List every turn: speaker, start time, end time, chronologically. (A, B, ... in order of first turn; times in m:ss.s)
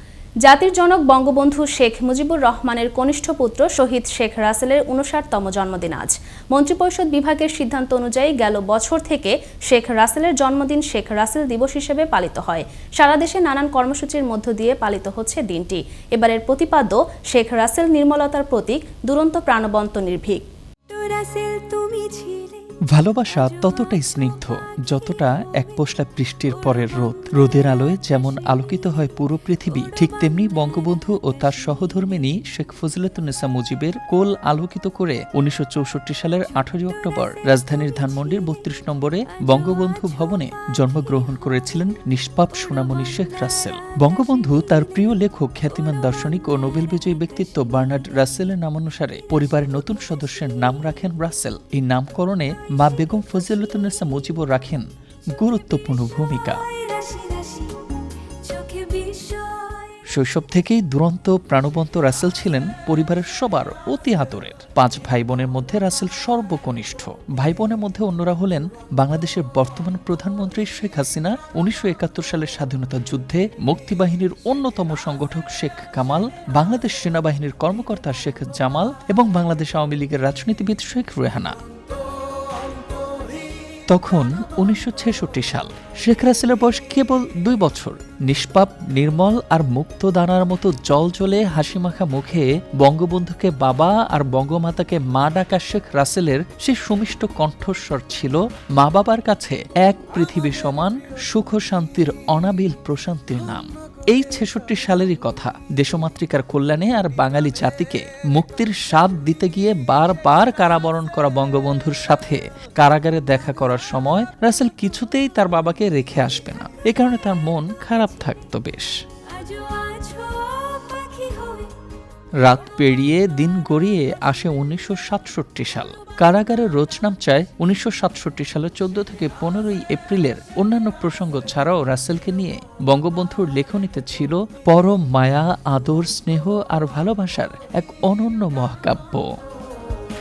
0:00.4-0:20.5 A
0:20.9-0:22.8 B
0:22.9-0:54.9 C
0:24.0-0:24.5 B
0:55.4-0:56.6 C
0:56.6-0:59.9 B
1:00.1-1:21.6 C
1:23.9-1:58.9 C
1:59.3-2:01.8 B
2:02.4-2:19.3 C